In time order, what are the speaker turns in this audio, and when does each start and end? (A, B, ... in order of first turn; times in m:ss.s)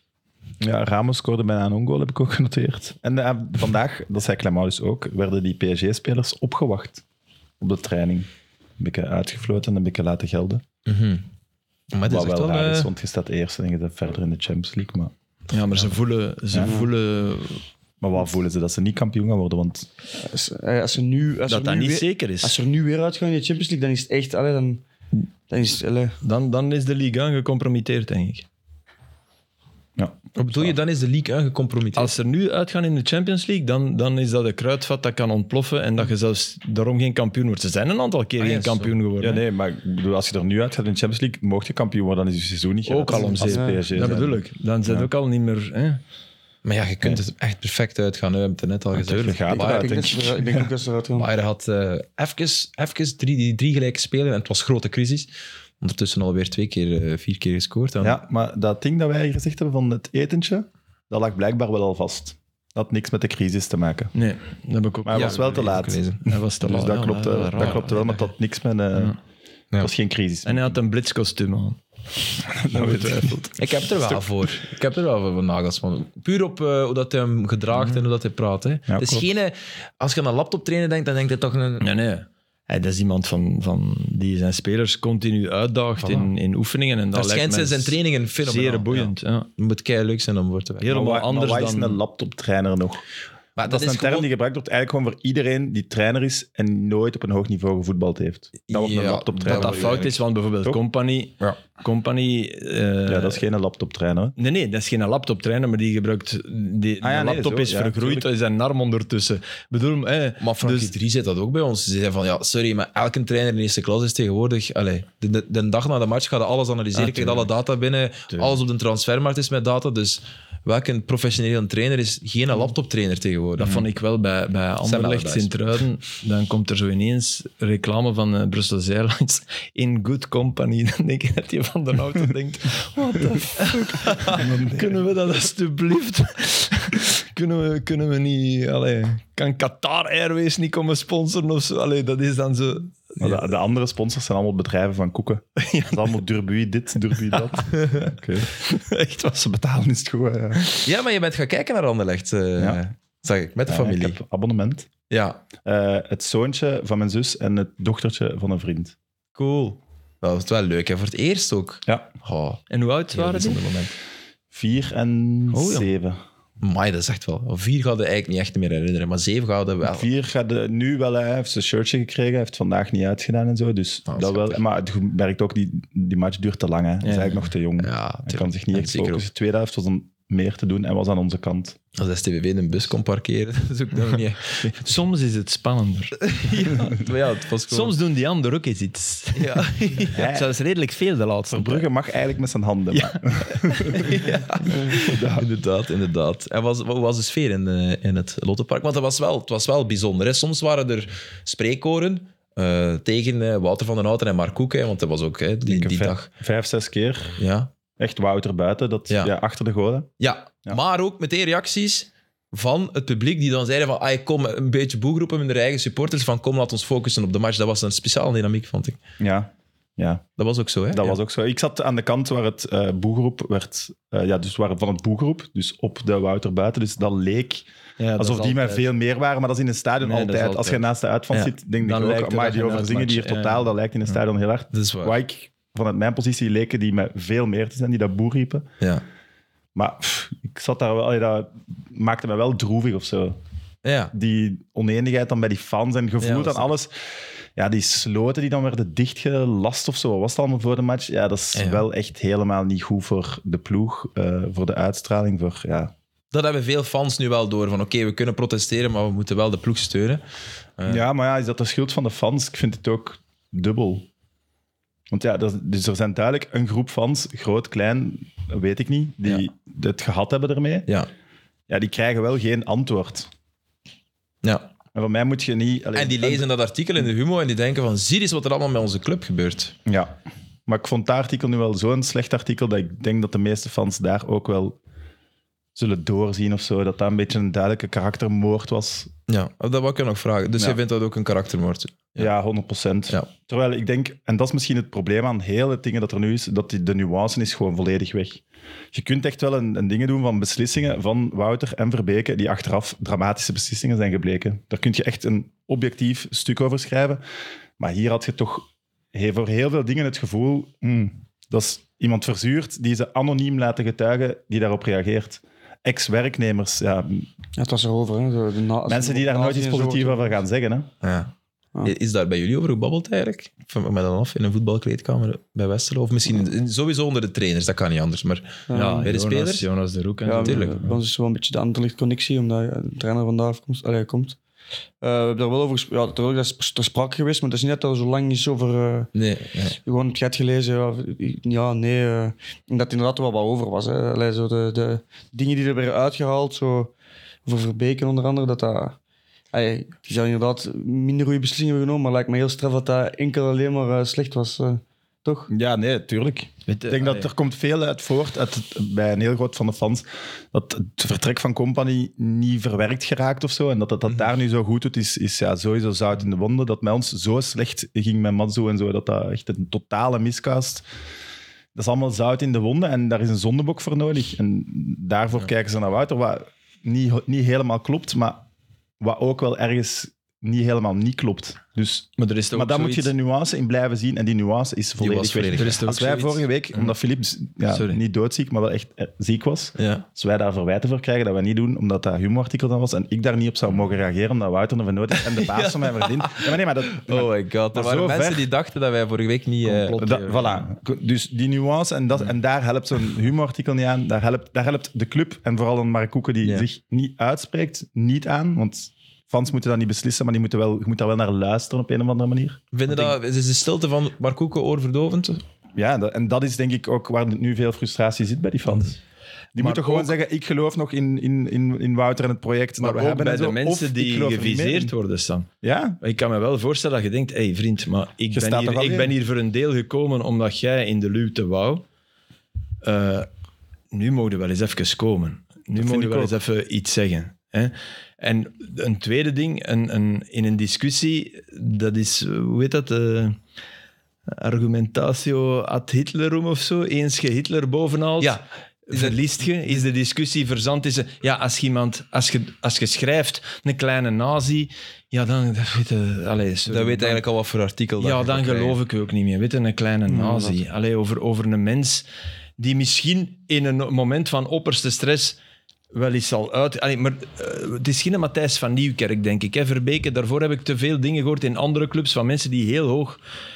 0:00.6-0:07.0 A
0:07.6-0:08.3 A
0:08.8-0:10.6 A
0:10.8-0:11.2 B
0:11.9-0:12.9 B
0:12.0-0:15.1 A
0:15.5-0:17.6 C
0:16.6-0:16.9 D
0:18.0-0:19.9 A
0:20.2-0:24.8 D
0:21.5-0:22.6 C
0:25.5-0:26.2 D
0:26.2-0:28.4 C
0:30.0-0:30.7 A
0:30.4-0:32.1 B
0:32.0-0:39.4 C
0:38.4-0:38.9 B
0:39.2-0:45.1 A
0:42.8-0:46.0 C
0:43.2-0:43.8 D
0:46.6-0:50.4 B
0:48.9-0:50.7 A
0:49.5-0:51.3 D
0:51.1-0:58.2 B
0:58.0-1:04.1 A
1:04.1-1:08.3 C
1:05.0-1:09.2 A
1:05.1-1:06.2 B
1:09.8-1:10.8 A
1:10.4-1:11.8 C
1:12.5-1:13.5 A
1:12.7-1:13.5 C
1:13.6-1:21.9 B
1:18.9-1:19.2 A
1:21.8-1:29.5 C
1:26.0-1:26.3 B
1:27.1-1:30.9 B
1:30.8-1:32.0 C
1:30.9-1:33.0 A
1:33.6-1:34.3 B
1:33.6-1:40.1 A
1:38.7-1:40.2 B
1:39.4-1:43.4 C
1:43.1-1:44.4 A
1:44.4-1:50.9 C
1:47.0-1:48.3 A
1:50.4-2:03.8 B
1:57.0-1:57.4 C
2:03.6-2:23.4 C
2:04.8-2:05.7 B
2:14.3-2:15.1 A
2:23.2-2:28.5 A
2:25.6-2:26.1 C
2:28.5-2:29.4 C
2:29.3-2:30.7 A
2:30.8-2:34.2 B
2:33.6-2:34.9 A
2:35.1-2:35.4 B
2:35.6-2:38.9 A
2:39.4-2:42.6 B
2:42.7-2:43.9 C
2:43.1-2:43.9 B
2:44.5-2:46.2 A
2:45.5-2:45.9 C
2:46.6-2:50.1 B
2:49.8-3:01.8 A
2:54.1-2:54.6 B
2:57.0-2:57.4 C
2:57.8-2:59.2 B
3:02.0-3:04.8 B
3:04.6-3:06.2 C
3:06.2-3:07.9 B
3:07.7-3:11.9 C
3:09.4-3:10.3 B
3:10.1-3:10.5 A
3:11.5-3:14.0 A
3:12.9-3:14.9 C
3:13.8-3:26.3 B
3:14.9-3:15.4 A
3:25.6-3:27.4 A
3:27.4-3:27.7 B
3:28.0-3:30.1 A
3:30.2-3:39.0 B
3:39.2-3:40.2 A
3:40.4-3:41.2 B
3:40.9-3:47.6 A
3:48.0-3:48.9 C
3:48.2-3:58.6 A
3:50.0-3:50.8 C
3:51.8-3:53.7 C
3:54.7-3:55.2 B
3:59.7-4:03.4 A
4:03.8-4:04.1 B
4:04.1-4:06.9 A
4:06.2-4:06.7 B
4:07.6-4:15.9 A
4:11.5-4:11.8 B
4:16.3-4:20.2 B
4:20.9-4:24.1 A
4:25.1-4:30.9 A
4:31.7-4:33.3 A
4:34.4-4:34.7 B
4:34.9-4:36.5 A
4:35.9-4:39.7 B
4:39.8-4:40.1 A
4:40.7-4:44.8 A
4:45.8-4:49.1 A
4:49.3-4:52.3 B
4:52.2-4:58.4 A
4:58.9-5:07.2 A
5:07.8-5:17.3 A
5:17.6-5:20.4 D
5:18.9-5:20.9 A
5:21.0-5:21.3 B
5:21.8-5:29.6 B
5:28.7-5:29.1 D
5:28.7-5:30.7 C
5:30.2-5:34.4 D
5:30.4-5:30.9 B
5:35.0-5:39.1 D
5:39.1-5:39.8 B
5:39.8-5:46.9 D
5:47.4-5:49.0 D
5:49.5-5:55.5 D
5:55.5-6:10.8 A
5:56.7-5:57.3 C
6:11.7-6:18.4 A
6:19.0-6:38.5 A
6:22.2-6:23.1 C
6:25.0-6:25.8 B
6:25.6-6:26.9 C
6:27.7-6:28.0 C
6:29.8-6:30.0 B
6:35.2-6:40.7 B
6:39.6-6:53.2 A
6:52.7-6:55.4 B
6:55.8-6:59.0 A
6:59.6-7:04.9 A
6:59.6-7:00.1 C
7:02.8-7:05.5 C
7:05.6-7:06.0 A
7:06.0-7:11.8 C
7:08.3-7:09.1 A
7:12.8-7:13.3 C
7:13.9-7:23.4 C
7:15.7-7:16.3 A
7:24.3-7:37.2 C
7:28.2-7:29.3 B
7:36.7-7:38.8 B
7:38.0-7:42.0 C
7:40.1-7:40.6 D
7:42.6-7:45.4 C
7:45.9-7:53.2 C